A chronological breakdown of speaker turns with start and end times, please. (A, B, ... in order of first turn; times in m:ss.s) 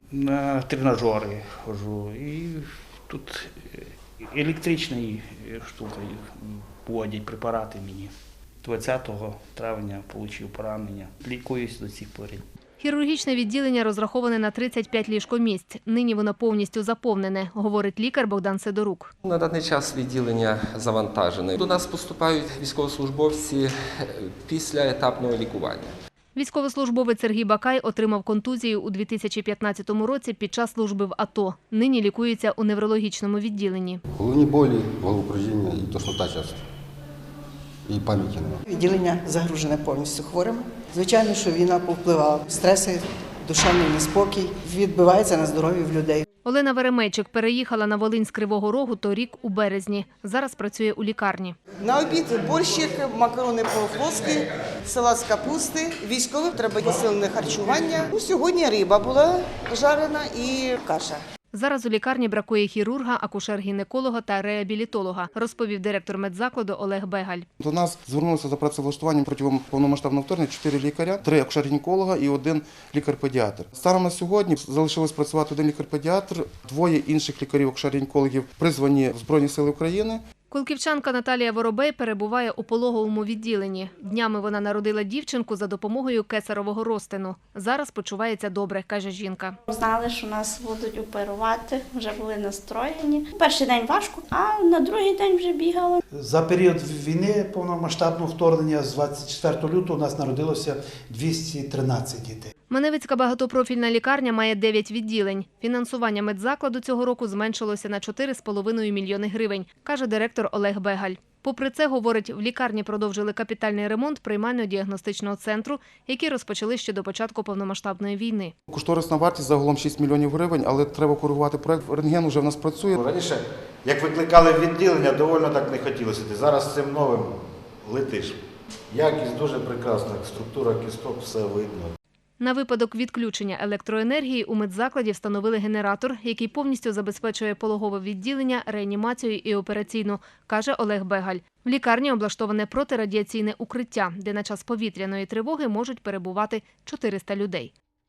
0:00.1-0:08.1 A
0:08.6-0:12.4 A
0:12.8-0:19.1 B
0:19.2-0:25.9 C
0:26.3-0:34.0 B
0:34.1-0:36.6 D
0:37.8-0:38.6 D
0:38.6-0:46.2 E
0:46.4-0:51.6 B
0:51.8-1:01.2 F
1:01.5-1:07.5 B
1:07.6-1:20.2 G
1:20.5-1:29.6 B
1:29.7-1:36.0 H
1:36.2-1:42.5 I
1:42.7-1:58.5 B
1:58.7-2:03.0 G
2:03.0-2:08.4 J
2:08.9-2:11.9 J
2:12.4-2:27.7 B